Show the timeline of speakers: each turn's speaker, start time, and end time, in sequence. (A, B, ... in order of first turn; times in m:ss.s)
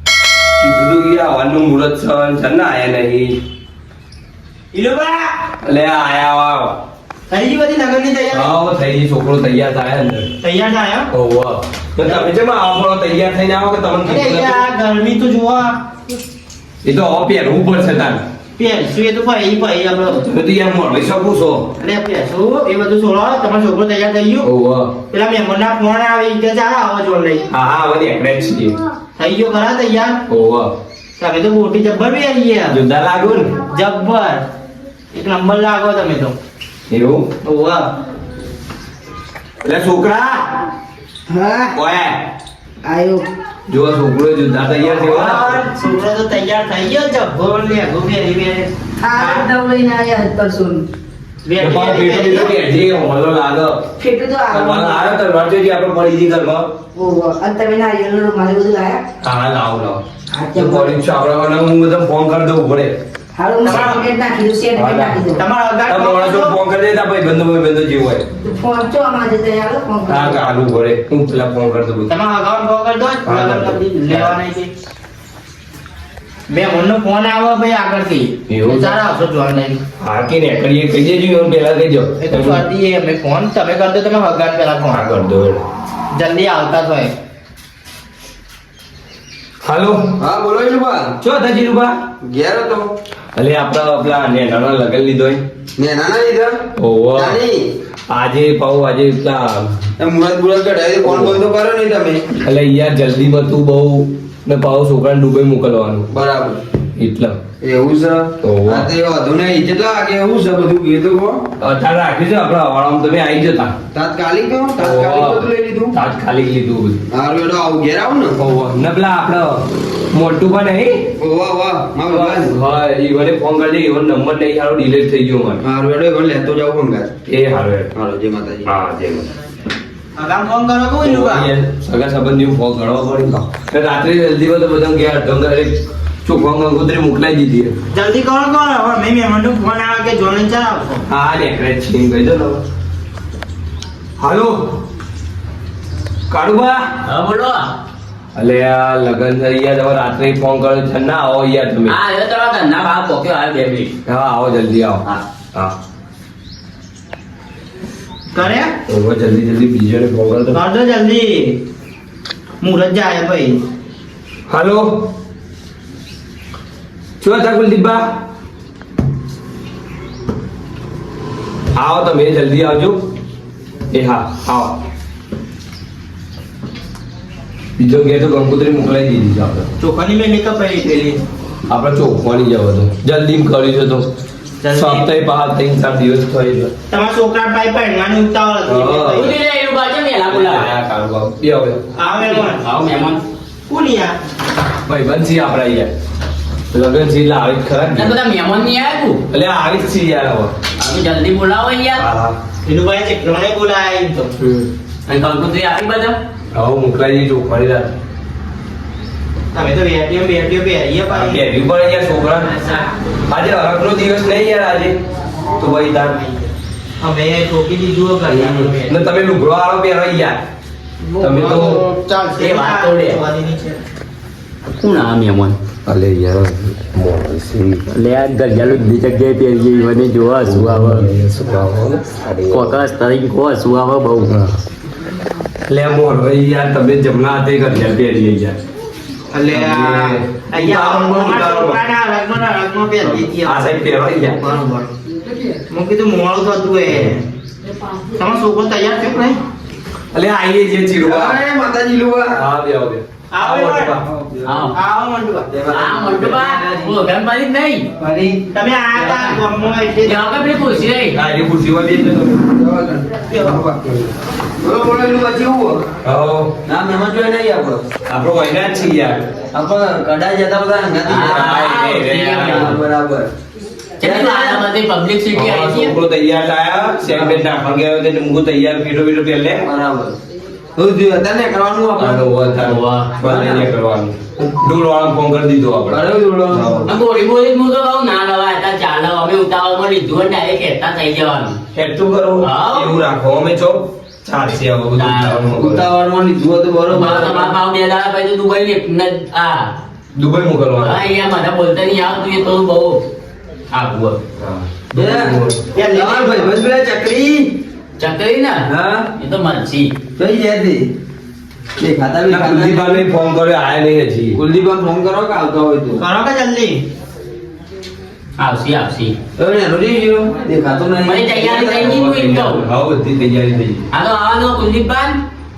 0:00.6-0:03.4 A
0:04.7-0:05.3 B
0:05.6-0:06.8 A
0:07.3-0:08.6 B
0:08.3-0:10.3 A
0:10.4-0:11.1 B
0:11.1-0:14.6 A
0:12.0-0:12.3 B
0:14.0-0:15.8 B
0:16.8-0:18.2 A
0:18.6-0:20.2 B
0:20.2-0:21.7 A
0:21.8-0:24.5 B
0:24.4-0:24.9 A
0:25.1-0:27.4 B
0:27.5-0:28.8 A
0:29.2-0:30.2 B
0:30.3-0:30.7 A
0:31.2-0:32.8 B
0:32.7-0:33.6 A
0:33.6-0:34.4 B
0:35.1-0:36.3 B
0:36.9-0:37.3 A
0:37.4-0:37.9 B
0:39.6-0:40.5 A
0:41.3-0:41.7 C
0:41.7-0:42.2 A
0:42.8-0:43.3 C
0:43.7-0:45.6 A
0:44.8-0:49.4 B
0:49.0-0:50.8 C
0:51.4-0:52.6 B
0:51.6-0:53.8 A
0:54.0-0:55.2 C
0:54.5-0:56.7 A
0:57.0-0:59.0 C
0:59.2-1:00.0 A
1:00.3-1:01.0 C
1:00.5-1:03.0 A
1:03.4-1:05.4 C
1:03.6-1:04.0 B
1:03.6-1:04.0 A
1:04.7-1:05.3 A
1:05.3-1:06.6 B
1:05.8-1:08.2 A
1:08.4-1:10.6 C
1:10.0-1:12.1 A
1:12.1-1:14.7 B
1:13.2-1:14.4 A
1:16.5-1:19.8 B
1:18.5-1:19.0 A
1:20.0-1:22.6 A
1:22.2-1:25.1 B
1:24.9-1:25.6 A
1:26.1-1:27.1 B
1:29.6-1:30.1 A
1:30.2-1:31.2 D
1:31.2-1:32.0 A
1:32.2-1:32.9 D
1:33.3-1:35.4 A
1:35.8-1:36.6 D
1:36.8-1:37.4 A
1:37.1-1:37.6 D
1:38.1-1:39.7 A
1:40.0-1:42.3 D
1:41.0-1:41.4 A
1:42.4-1:46.1 A
1:46.1-1:46.6 D
1:47.0-1:47.4 A
1:47.6-1:51.4 D
1:48.4-1:48.9 A
1:51.6-1:53.8 A
1:53.9-1:55.9 D
1:54.8-1:57.0 A
1:57.1-1:58.4 D
1:58.4-1:59.6 A
2:00.1-2:01.0 A
2:01.2-2:02.5 D
2:02.1-2:05.6 A
2:05.6-2:07.1 D
2:07.2-2:07.9 A
2:07.9-2:08.7 D
2:08.6-2:09.3 A
2:10.2-2:11.5 B
2:11.0-2:17.7 A
2:17.9-2:21.0 B
2:21.1-2:22.6 A
2:24.2-2:24.6 A
2:26.3-2:26.8 A
2:27.0-2:27.7 E
2:28.3-2:31.9 A
2:31.8-2:33.9 E
2:34.0-2:35.7 A
2:38.3-2:38.7 B
2:38.9-2:40.6 A
2:40.5-2:41.6 B
2:42.6-2:43.6 B
2:44.5-2:45.1 A
2:47.2-2:48.1 A
2:51.7-2:53.0 A
2:53.9-2:54.8 A
2:57.8-2:59.7 A
2:59.8-3:01.2 B
3:01.7-3:04.1 A
3:04.6-3:05.1 B
3:04.7-3:06.7 A
3:06.9-3:09.3 B
3:08.6-3:09.3 A
3:09.1-3:10.7 E
3:10.3-3:11.8 A
3:12.0-3:12.6 B
3:12.2-3:13.2 E
3:13.7-3:14.2 B
3:14.9-3:15.9 A
3:16.7-3:18.2 A
3:17.9-3:19.2 E
3:19.3-3:20.5 A
3:20.8-3:22.0 E
3:22.0-3:22.4 A
3:22.6-3:24.3 B
3:24.4-3:24.7 A
3:25.0-3:26.2 E
3:26.5-3:28.0 A
3:29.5-3:31.4 B
3:31.1-3:32.5 A
3:33.3-3:35.0 A
3:35.6-3:36.2 A
3:37.0-3:39.0 B
3:38.2-3:40.4 A
3:41.2-3:41.8 A
3:41.2-3:43.8 B
3:42.4-3:43.2 E
3:44.8-3:45.6 E
3:45.9-3:47.8 A
3:47.9-3:51.1 E
3:50.4-3:52.8 A
3:52.5-3:54.3 E
3:55.7-3:58.6 A
3:59.3-4:04.9 B
3:59.5-4:01.8 A
4:03.0-4:04.4 A
4:05.7-4:07.2 B
4:08.1-4:09.4 B
4:10.1-4:11.4 A
4:11.0-4:12.4 D
4:12.3-4:14.0 A
4:13.3-4:14.0 B
4:14.1-4:14.6 D
4:14.4-4:14.7 E
4:14.7-4:15.5 B
4:15.5-4:16.9 D
4:15.7-4:17.9 E
4:18.0-4:18.4 D
4:18.5-4:20.2 B
4:20.0-4:21.1 E
4:21.1-4:22.5 A
4:22.5-4:23.9 D
4:23.3-4:23.6 B
4:24.6-4:25.8 D
4:26.0-4:26.6 A
4:26.6-4:27.8 D
4:28.1-4:29.3 A
4:29.5-4:31.9 D
4:31.0-4:32.8 E
4:31.1-4:32.8 A
4:32.4-4:33.3 D
4:34.0-4:36.0 E
4:34.0-4:34.6 D
4:35.3-4:39.6 A
4:36.9-4:37.4 D
4:39.6-4:40.2 D
4:40.8-4:42.2 D
4:42.0-4:46.9 A
4:42.6-4:43.1 E
4:43.2-4:43.7 D
4:45.9-4:46.9 D
4:46.9-4:51.6 E
4:51.7-4:55.9 A
4:52.4-4:53.0 E
4:54.9-4:55.4 E
4:55.5-4:57.5 D
4:56.9-4:59.7 E
5:00.1-5:01.0 A
5:00.8-5:03.0 E
5:03.7-5:04.2 E
5:04.4-5:05.6 A
5:04.9-5:07.6 D
5:05.7-5:06.5 B
5:08.0-5:09.9 E
5:08.7-5:09.1 D
5:10.2-5:10.9 D
5:11.8-5:13.0 D
5:12.3-5:14.4 A
5:14.3-5:16.0 D
5:16.0-5:16.8 B
5:18.4-5:19.2 E
5:19.4-5:22.0 D
5:21.0-5:22.6 E
5:21.8-5:23.8 A
5:23.9-5:25.2 E